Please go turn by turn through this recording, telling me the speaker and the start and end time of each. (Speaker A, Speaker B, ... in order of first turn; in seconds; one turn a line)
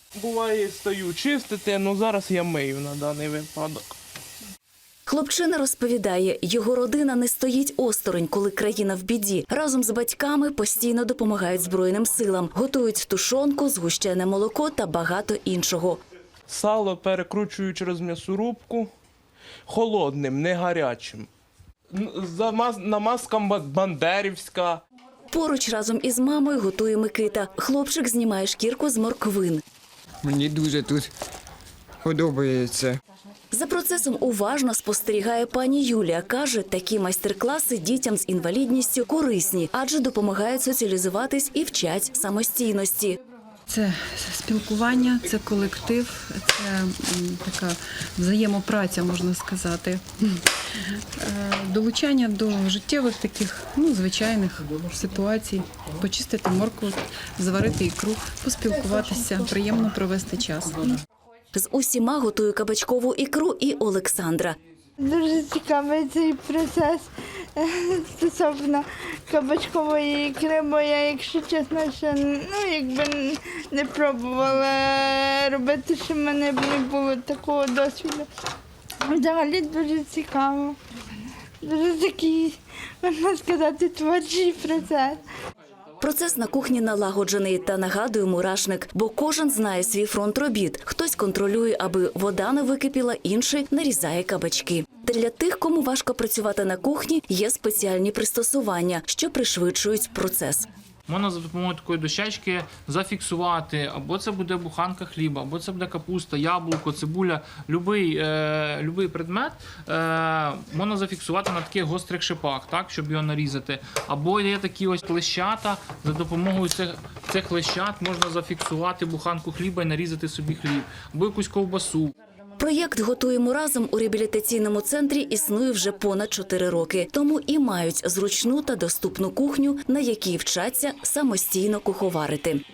Speaker A: 0.1-3.9
Speaker B: 5.1-16.0
Speaker A: 16.5-18.9
Speaker A: 19.7-21.3
Speaker A: 21.9-24.8
Speaker B: 25.3-29.6
Speaker C: 30.2-31.1
Speaker C: 32.0-33.0
Speaker B: 33.5-43.2
Speaker D: 43.7-60.9
Speaker E: 59.2-59.4
Speaker B: 61.5-64.5
Speaker E: 65.0-78.3
Speaker E: 79.0-80.8
Speaker E: 81.6-85.2
Speaker B: 86.0-100.7
Speaker F: 101.1-122.1
Speaker B: 122.6-132.6